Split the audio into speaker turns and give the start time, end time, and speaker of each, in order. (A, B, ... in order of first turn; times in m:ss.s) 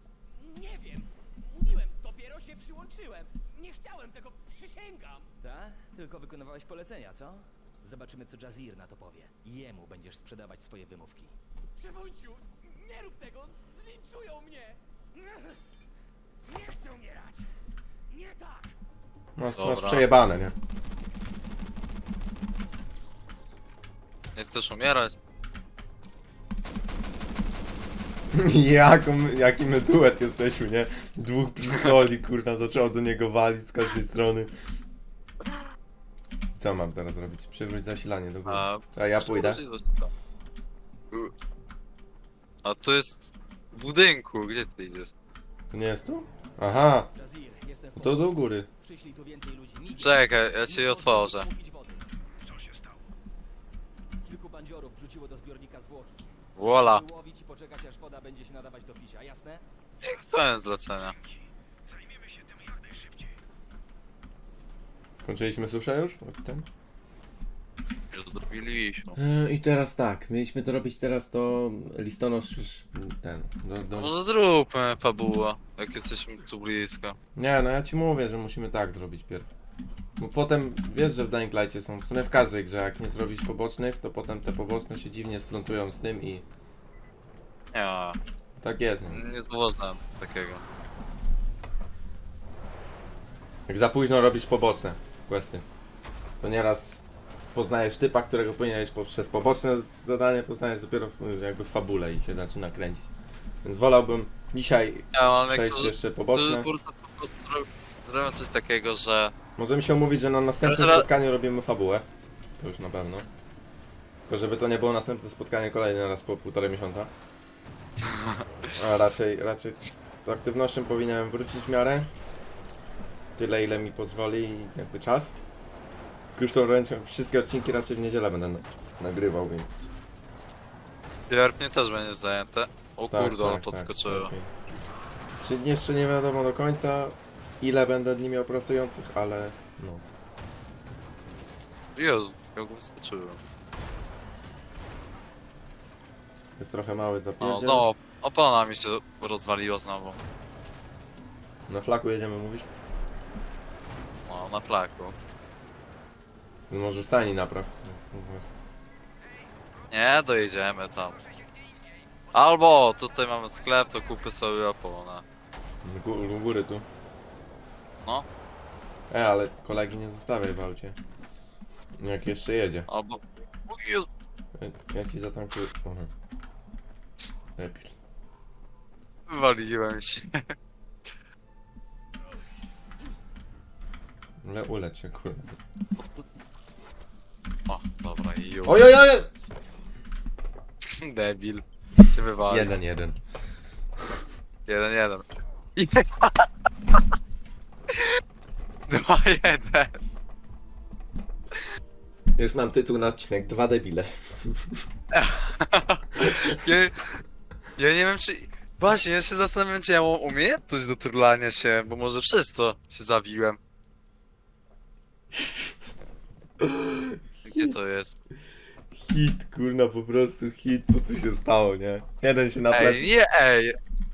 0:00.3-0:05.3 A
0:05.4-0:11.4 B
0:11.8-0:15.6 A
0:16.4-0:17.5 A
0:18.1-0:18.8 A
0:19.4-0:20.6 C
0:19.5-0:20.0 D
0:24.4-0:25.2 D
0:28.3-0:34.5 C
0:36.6-0:39.6 C
0:38.5-0:40.1 D
0:42.6-0:45.1 D
0:45.7-0:47.1 C
0:47.1-0:52.1 B
0:48.0-0:48.7 C
0:50.0-0:51.5 D
0:52.3-0:53.1 E
0:54.2-0:59.6 B
0:56.6-0:57.0 D
1:00.0-1:03.4 E
1:00.0-1:01.2 D
1:05.2-1:06.7 C
1:08.1-1:09.2 D
1:09.2-1:14.2 C
1:14.0-1:17.2 D
1:17.4-1:19.5 C
1:20.2-1:26.4 C
1:27.7-1:28.2 D
1:28.6-1:29.2 C
1:29.1-1:30.6 D
1:33.7-1:35.6 C
1:36.4-1:43.1 C
1:43.6-1:46.7 C
1:45.1-1:49.3 D
1:49.6-1:52.1 C
1:50.6-1:51.1 D
1:52.6-1:53.3 C
1:54.3-1:57.1 C
1:58.1-1:58.4 D
1:58.7-2:02.1 C
2:03.4-2:05.4 C
2:06.4-2:09.9 C
2:11.3-2:14.3 D
2:13.1-2:14.5 C
2:15.4-2:20.0 C
2:22.0-2:23.4 D
2:26.6-2:27.9 C
2:27.4-2:30.2 D
2:31.7-2:32.7 C
2:34.3-2:35.1 D
2:36.7-2:38.5 C
2:39.9-2:41.2 D
2:41.4-2:41.9 A
2:42.3-2:45.2 D
2:45.8-2:46.9 C
2:49.1-2:51.0 C
2:52.0-2:52.9 C
2:52.9-2:54.1 D
2:54.6-2:56.1 C
2:57.6-2:58.0 C
2:59.3-3:00.5 D
3:04.4-3:05.6 C
3:07.7-3:09.5 D
3:08.6-3:09.3 C
3:10.8-3:12.7 D
3:12.5-3:13.2 C
3:14.7-3:15.2 D
3:15.8-3:16.5 D
3:18.9-3:20.0 D
3:22.4-3:24.9 C
3:25.1-3:27.2 D
3:26.2-3:26.6 C
3:27.8-3:33.6 D
3:36.6-3:37.7 C
3:37.4-3:38.2 D
3:38.9-3:43.1 C
3:42.7-3:43.8 D